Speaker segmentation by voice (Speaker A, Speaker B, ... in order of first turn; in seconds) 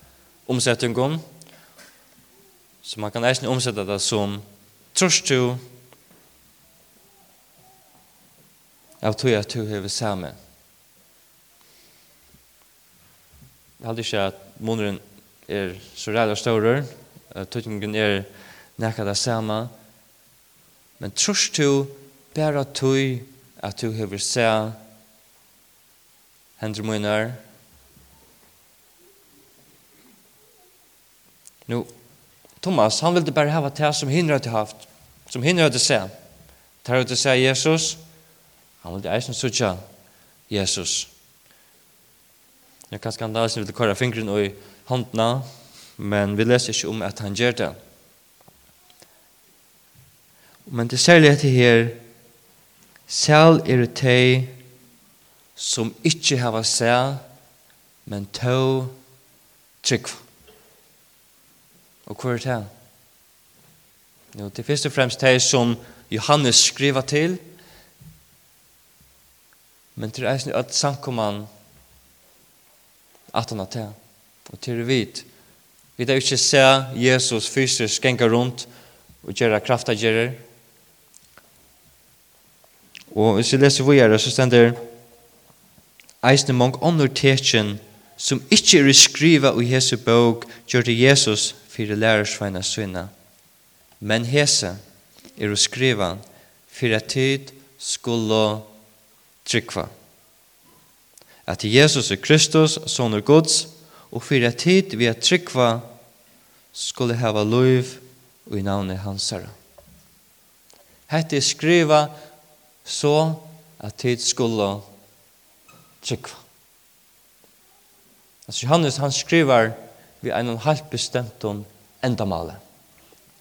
Speaker A: 0.5-1.2, 2.8-5.6, 9.0-10.4, 13.8-19.7, 21.0-24.8, 26.6-27.4, 32.6-36.1, 36.8-38.0, 38.8-39.8, 40.5-41.1, 42.9-45.5, 46.0-47.8, 50.7-52.0, 53.1-54.5, 55.5-57.2, 58.0-58.9, 59.8-60.2, 62.0-62.7, 64.3-67.4, 70.0-71.5, 73.3-74.0, 74.5-75.3, 76.0-78.7, 79.2-80.4, 83.1-84.8, 86.2-93.1, 94.0-94.8, 95.4-98.7, 99.4-99.9, 101.5-105.9, 106.7-109.5, 111.1-112.1, 112.8-114.8, 116.0-116.4, 118.5-122.6